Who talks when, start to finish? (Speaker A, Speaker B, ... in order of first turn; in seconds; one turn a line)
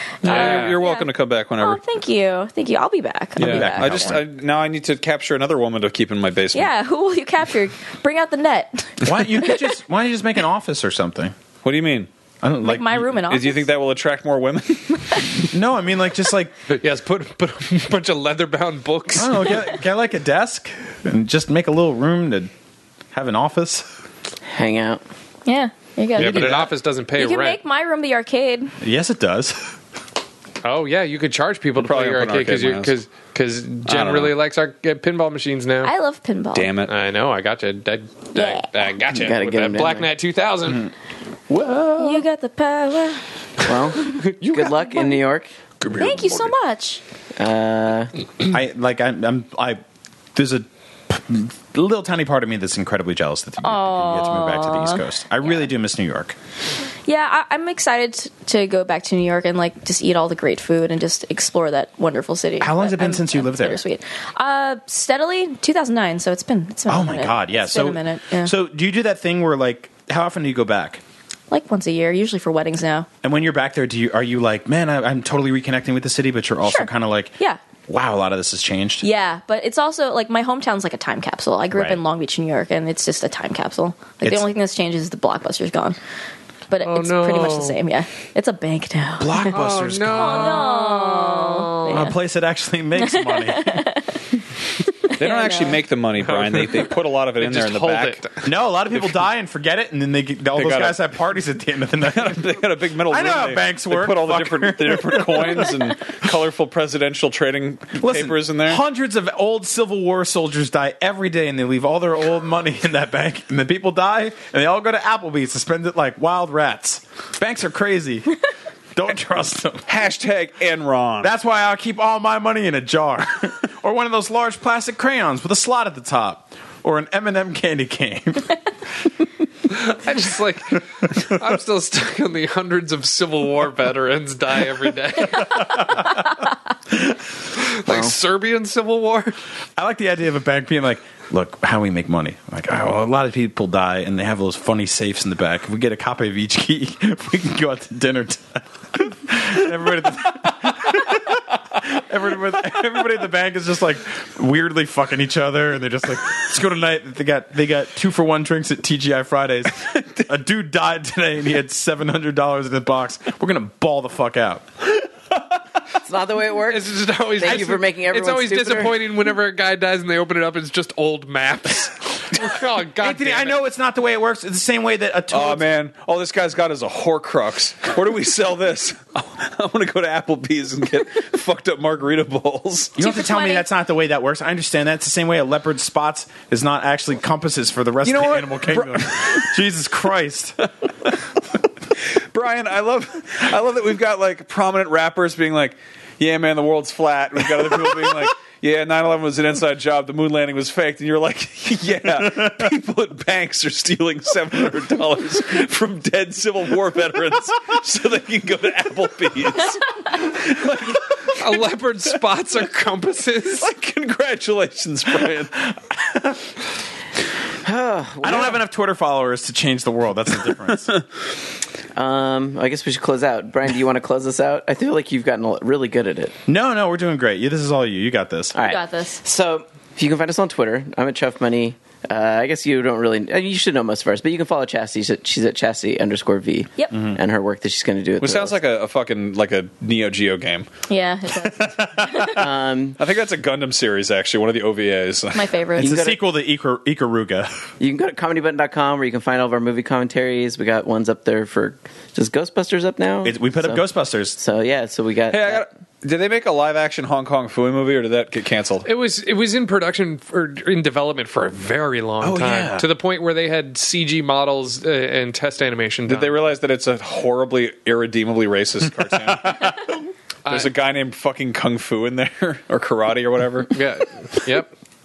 Speaker A: 0.2-4.2
Speaker B: 0.2-1.8
Speaker C: 0.2-0.8
Speaker B: 3.4-6.7
Speaker D: 3.4-4.2
Speaker A: 6.5-9.7
Speaker D: 9.0-11.3
Speaker B: 11.6-12.1
Speaker D: 12.4-13.1
Speaker A: 12.6-13.7
Speaker B: 13.2-15.3
Speaker D: 15.5-16.6
Speaker C: 16.7-19.6
Speaker D: 19.1-22.5
Speaker D: 23.1-23.9
Speaker E: 24.4-25.0
Speaker A: 25.4-28.7
Speaker C: 26.2-27.6
Speaker D: 28.8-29.7
Speaker C: 30.6-35.9
Speaker B: 31.8-32.9
Speaker B: 33.9-34.4
Speaker A: 35.8-36.8
Speaker B: 36.5-36.9
Speaker C: 36.9-40.9
Speaker A: 38.4-38.9
Speaker E: 39.1-40.1
Speaker C: 41.5-42.2
Speaker A: 42.0-43.2
Speaker E: 43.6-45.5
Speaker B: 45.8-46.5
Speaker A: 46.0-47.0
Speaker E: 47.4-48.1
Speaker D: 48.5-49.8
Speaker D: 50.4-56.4
Speaker A: 53.6-55.0
Speaker A: 57.1-68.5
Speaker D: 62.6-63.8
Speaker D: 66.9-71.0
Speaker A: 71.5-73.1
Speaker D: 73.2-77.3
Speaker A: 76.6-77.6
Speaker D: 77.9-79.1
Speaker A: 79.0-86.0
Speaker D: 81.7-82.0
Speaker A: 86.7-89.6
Speaker C: 86.8-87.8
Speaker D: 89.2-90.5
Speaker C: 89.5-92.1
Speaker A: 90.1-92.2
Speaker D: 91.9-94.0
Speaker A: 93.0-94.2
Speaker A: 94.9-95.8
Speaker B: 95.1-98.2
Speaker C: 96.3-98.5
Speaker D: 98.4-102.5
Speaker B: 100.6-101.0
Speaker B: 102.0-108.8
Speaker D: 103.1-105.7
Speaker D: 108.0-118.3
Speaker D: 119.0-119.9
Speaker B: 119.9-121.3
Speaker D: 121.2-128.6
Speaker C: 129.7-136.1
Speaker D: 135.4-136.1
Speaker C: 137.6-139.4
Speaker D: 139.8-165.1
Speaker E: 166.0-169.0
Speaker C: 166.7-173.5
Speaker D: 173.0-175.7
Speaker B: 175.3-183.0
Speaker A: 183.0-183.7
Speaker D: 183.0-190.7
Speaker B: 188.0-189.5
Speaker B: 192.3-211.4
Speaker D: 202.1-202.7
Speaker C: 211.4-213.7
Speaker B: 213.6-215.6
Speaker D: 215.6-216.4
Speaker E: 217.6-218.6
Speaker D: 218.2-220.9
Speaker E: 221.9-226.4
Speaker D: 226.5-228.6
Speaker E: 228.5-238.5
Speaker A: 228.6-229.2
Speaker B: 238.2-240.7
Speaker A: 240.9-242.4
Speaker D: 241.4-242.4
Speaker E: 242.3-243.0
Speaker B: 243.0-245.5
Speaker A: 245.3-245.9
Speaker E: 245.8-246.2
Speaker D: 245.8-247.5
Speaker E: 247.8-253.8
Speaker D: 253.2-254.4
Speaker E: 254.4-255.7
Speaker B: 255.3-258.9
Speaker C: 258.9-266.4
Speaker B: 262.2-262.9
Speaker B: 266.1-269.9
Speaker B: 270.5-273.8
Speaker C: 273.7-274.7